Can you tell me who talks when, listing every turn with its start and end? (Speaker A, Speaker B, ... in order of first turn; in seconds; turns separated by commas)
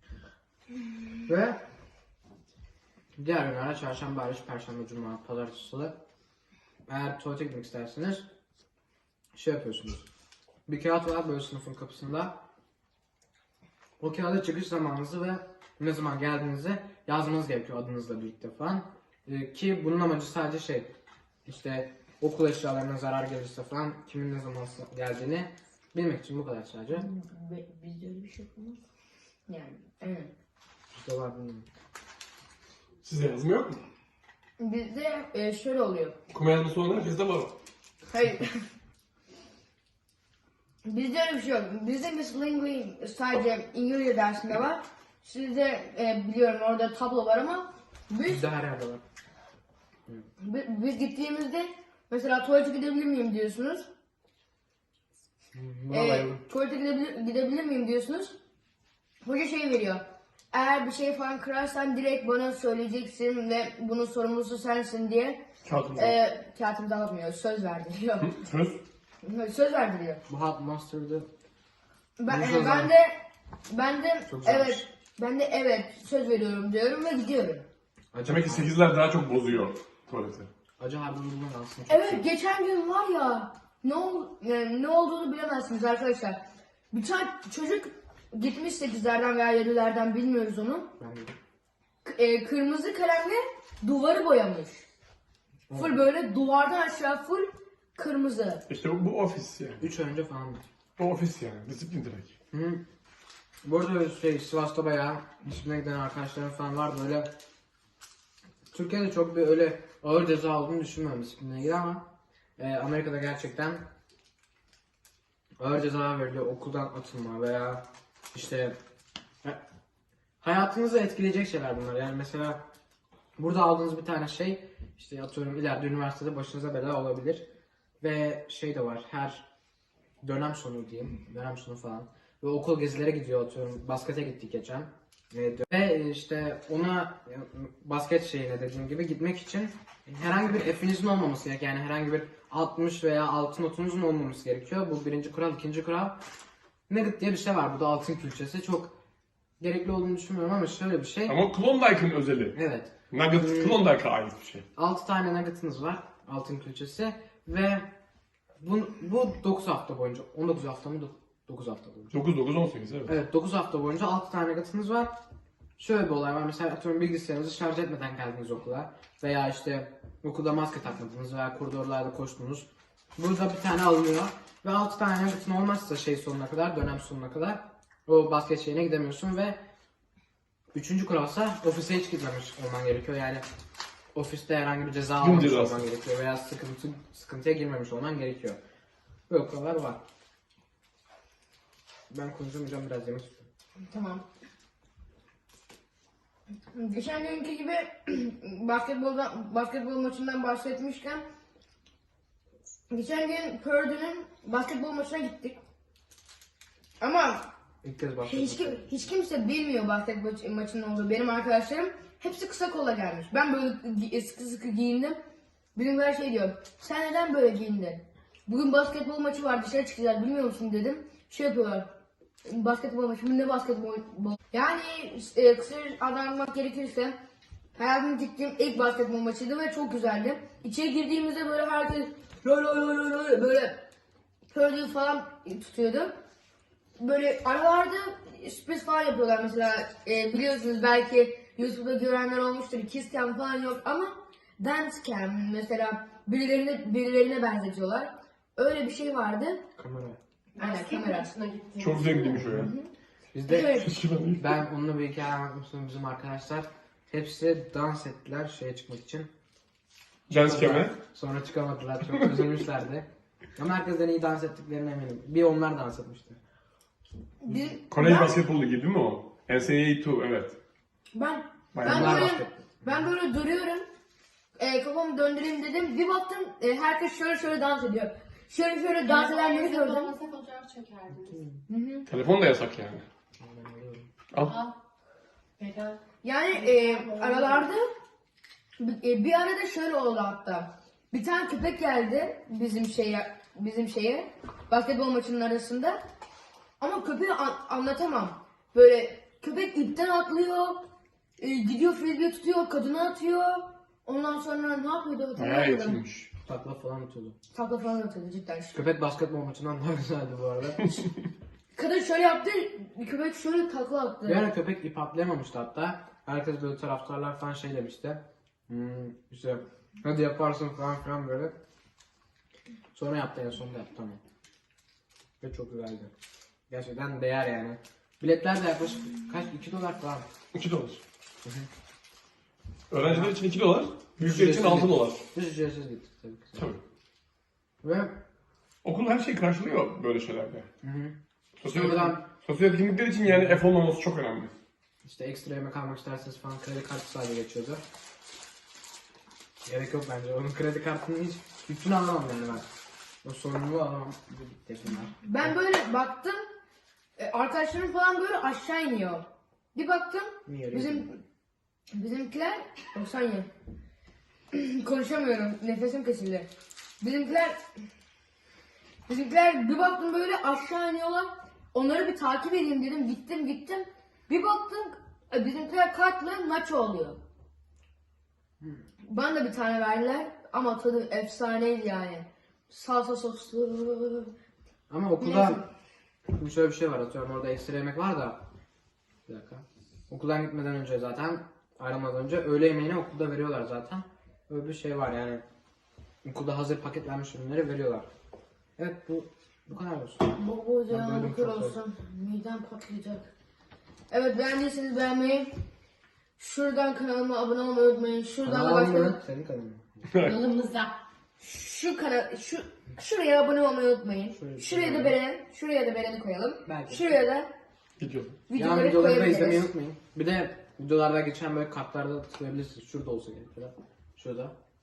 Speaker A: 1.3-1.6, Speaker A: 3.2-6.0, Speaker A: 6.9-8.3, Speaker A: 9.3-10.1, Speaker A: 10.7-12.4, Speaker A: 14.0-20.9, Speaker A: 21.5-27.1, Speaker B: 26.9-28.8, Speaker B: 29.5-30.3, Speaker A: 30.9-31.7, Speaker C: 33.0-33.8, Speaker B: 34.6-36.2, Speaker C: 36.3-37.6, Speaker B: 38.1-38.6, Speaker B: 40.9-48.5, Speaker A: 48.3-49.0, Speaker B: 50.4-53.9, Speaker A: 55.5-56.4, Speaker B: 55.9-58.4, Speaker B: 59.2-65.4, Speaker C: 65.7-66.2, Speaker B: 66.0-68.3, Speaker C: 68.2-68.8, Speaker B: 69.2-70.2, Speaker A: 70.3-71.3, Speaker B: 72.2-73.1, Speaker A: 72.3-72.9, Speaker B: 73.7-77.7, Speaker A: 74.3-74.9, Speaker A: 78.1-78.7, Speaker C: 78.2-80.5, Speaker A: 80.8-82.3, Speaker B: 81.9-86.4, Speaker B: 86.9-90.9, Speaker A: 91.0-91.4, Speaker B: 92.0-94.8, Speaker A: 95.7-96.0, Speaker B: 95.7-98.6, Speaker C: 98.7-99.9, Speaker A: 99.8-100.7, Speaker C: 101.0-102.3, Speaker A: 102.5-102.8, Speaker A: 103.6-107.3, Speaker A: 108.7-113.9, Speaker A: 115.6-118.8, Speaker A: 120.4-122.6, Speaker A: 123.4-127.5, Speaker A: 128.0-129.5, Speaker A: 130.2-146.2, Speaker A: 146.9-149.0, Speaker A: 149.6-151.4, Speaker C: 151.3-152.6, Speaker A: 152.5-153.8, Speaker C: 153.1-154.7, Speaker A: 154.8-157.9, Speaker A: 158.6-162.2, Speaker C: 162.1-163.2, Speaker A: 163.1-165.2, Speaker A: 165.8-179.6, Speaker A: 180.7-183.4, Speaker A: 184.1-188.6, Speaker C: 185.2-185.8, Speaker A: 189.3-190.0, Speaker A: 192.1-193.5, Speaker B: 193.9-194.2, Speaker B: 196.7-201.2, Speaker B: 202.9-205.6, Speaker B: 207.0-207.5, Speaker A: 207.8-208.8, Speaker B: 208.2-215.2, Speaker B: 215.8-221.9, Speaker B: 222.4-227.2, Speaker B: 227.8-233.8, Speaker B: 234.5-236.1, Speaker B: 237.0-249.6, Speaker A: 249.8-250.2, Speaker B: 250.6-251.3, Speaker D: 250.6-252.4, Speaker C: 251.8-252.7, Speaker A: 252.4-252.7, Speaker B: 252.5-252.9, Speaker A: 253.3-253.9, Speaker B: 253.5-253.9, Speaker C: 253.7-254.6, Speaker A: 254.4-259.3, Speaker C: 260.3-260.9, Speaker A: 260.3-266.4, Speaker B: 267.4-268.4, Speaker C: 267.9-270.6, Speaker B: 271.1-273.9, Speaker C: 271.7-272.3, Speaker A: 271.8-273.1, Speaker B: 274.6-280.1, Speaker D: 279.1-281.4, Speaker A: 281.2-281.6, Speaker B: 281.7-282.1, Speaker C: 282.1-283.1, Speaker A: 283.4-284.1, Speaker D: 284.4-284.8, Speaker D: 285.6-286.0, Speaker B: 286.2-287.9, Speaker D: 286.5-287.7, Speaker B: 288.8-296.0, Speaker B: 296.8-300.9, Speaker B: 301.4-306.0, Speaker C: 305.4-306.3, Speaker A: 306.4-307.4, Speaker B: 307.5-308.8, Speaker A: 308.7-310.9, Speaker B: 311.8-314.5, Speaker A: 314.3-321.6, Speaker A: 322.9-324.2, Speaker A: 325.4-326.1, Speaker A: 326.7-330.3, Speaker C: 330.5-331.0, Speaker A: 331.4-331.7, Speaker C: 332.9-335.2, Speaker A: 333.0-333.4, Speaker A: 334.2-336.6, Speaker C: 336.6-336.8, Speaker A: 337.8-338.2, Speaker C: 338.8-340.7, Speaker A: 340.8-342.2, Speaker C: 341.6-344.5, Speaker A: 343.3-343.6, Speaker A: 345.0-347.8, Speaker A: 349.6-352.6, Speaker A: 353.2-355.6, Speaker B: 355.2-356.4, Speaker B: 357.2-361.2, Speaker A: 360.5-361.1, Speaker B: 361.9-363.5, Speaker B: 364.5-366.5, Speaker B: 367.0-367.6, Speaker B: 369.1-377.2, Speaker B: 379.1-384.3, Speaker A: 384.9-385.6, Speaker B: 385.2-385.7, Speaker A: 386.4-388.5, Speaker A: 389.3-395.4, Speaker A: 396.2-398.1, Speaker A: 398.8-400.3, Speaker B: 400.3-403.3, Speaker A: 400.9-401.8, Speaker B: 404.1-405.5, Speaker B: 406.4-409.2, Speaker A: 408.4-410.1, Speaker C: 410.1-410.4, Speaker D: 410.2-411.0, Speaker B: 411.4-417.5, Speaker A: 414.3-415.2, Speaker A: 416.7-417.2, Speaker C: 418.0-418.4, Speaker B: 418.5-419.7, Speaker A: 418.6-424.6